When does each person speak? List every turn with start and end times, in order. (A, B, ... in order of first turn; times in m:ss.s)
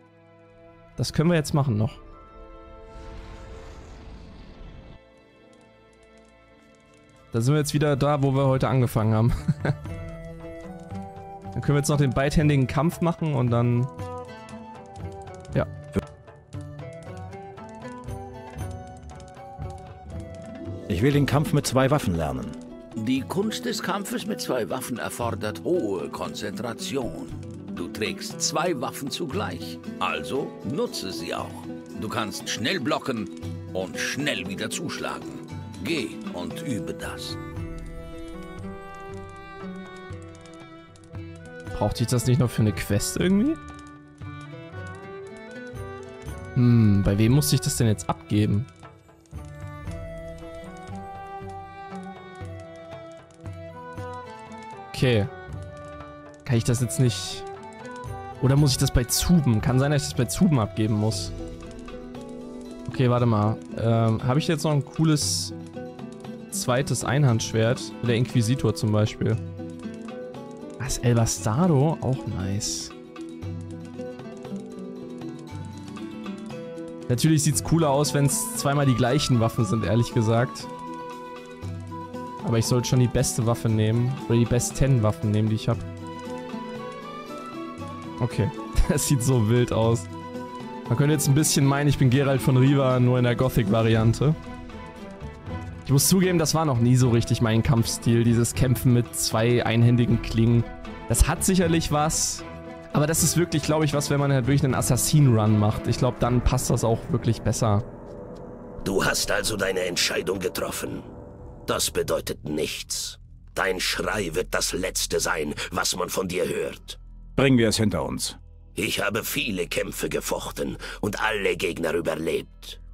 0:01.0-0:02.0 A
0:07.3-0:09.7 A
0:11.5-0:13.9 A
0:20.9-0:22.6 B
0:23.0-0:37.4 C
0:41.7-0:43.6 A
0:46.5-0:48.7 A
0:54.9-0:55.3 A
0:56.4-0:57.4 A
0:58.4-1:01.3 A
1:02.9-1:05.5 A
1:06.5-1:09.4 A
1:10.8-1:12.9 A
1:17.1-1:20.7 A
1:22.4-1:25.8 A
1:28.2-1:30.1 A
1:30.9-1:34.4 A
1:35.8-1:47.8 A
1:48.8-1:51.1 D
1:51.7-1:57.0 D
1:57.4-1:58.4 B
1:58.7-2:02.8 D